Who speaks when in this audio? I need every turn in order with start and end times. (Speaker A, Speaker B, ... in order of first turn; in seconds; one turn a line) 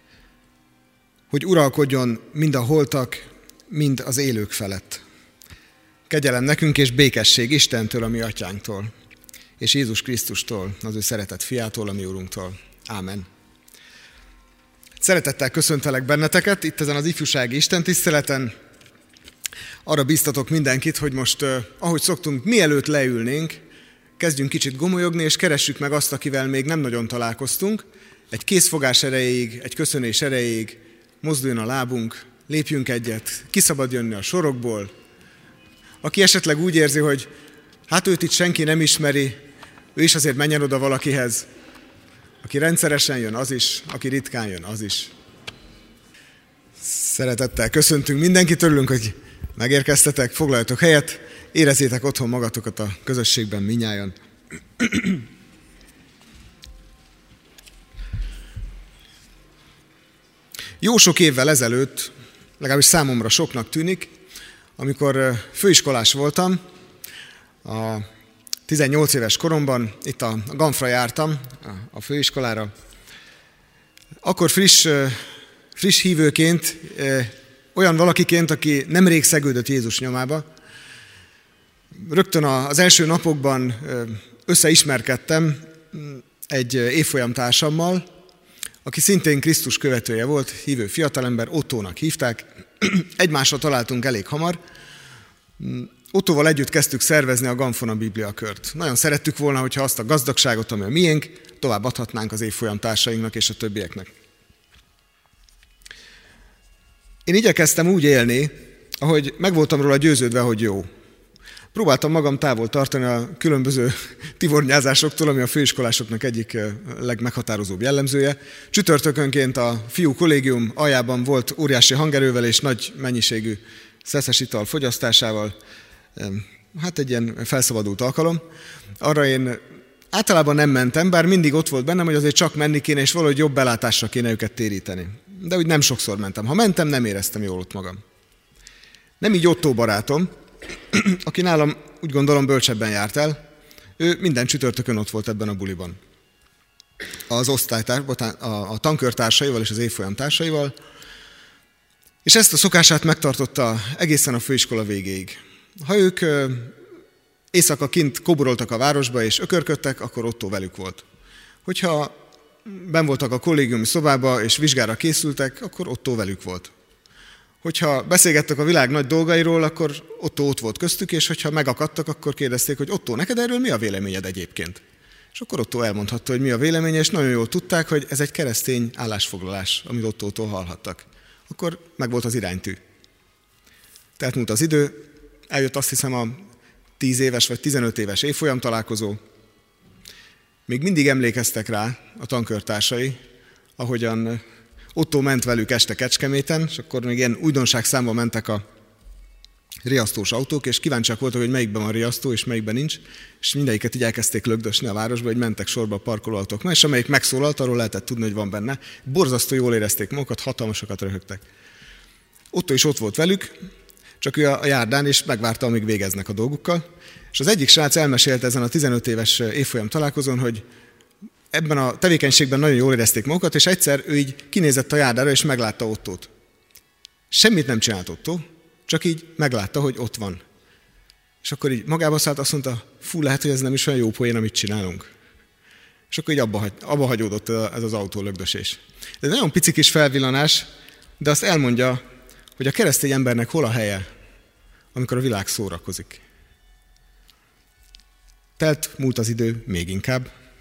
Speaker A: 1.3-5.0
Speaker A: 6.1-8.9
Speaker A: 9.6-13.3
Speaker A: 15.0-18.5
Speaker A: 19.9-23.6
Speaker A: 24.2-34.9
Speaker A: 36.0-37.3
Speaker A: 37.9-39.4
Speaker A: 40.0-41.5
Speaker A: 42.4-45.1
Speaker A: 46.8-54.2
Speaker A: 54.8-55.2
Speaker A: 60.8-64.1
Speaker A: 64.8-66.6
Speaker A: 67.6-68.1
Speaker A: 68.7-72.7
Speaker A: 74.2-80.5
Speaker A: 82.0-88.1
Speaker A: 88.8-94.6
Speaker A: 95.6-104.1
Speaker A: 107.3-110.9
Speaker A: 111.7-125.6
Speaker A: 126.2-128.4
Speaker A: 129.0-138.0
Speaker A: 139.2-140.3
Speaker A: 140.9-143.4
Speaker A: 144.0-146.0
Speaker A: 147.3-150.8
Speaker A: 152.2-156.8
Speaker A: 157.5-161.0
Speaker A: 161.7-166.7
Speaker A: 167.6-174.8
Speaker A: 175.3-182.8
Speaker A: 184.2-186.4
Speaker A: 187.0-189.2
Speaker A: 190.7-193.2
Speaker A: 193.8-194.4
Speaker A: 194.9-198.6
Speaker A: 199.8-211.4
Speaker A: 212.5-213.5
Speaker A: 214.2-220.6
Speaker A: 221.5-226.3
Speaker A: 227.3-230.4
Speaker A: 231.4-235.1
Speaker A: 236.1-240.7
Speaker A: 241.2-242.0
Speaker A: 242.6-244.1
Speaker A: 244.9-246.2
Speaker A: 248.6-250.3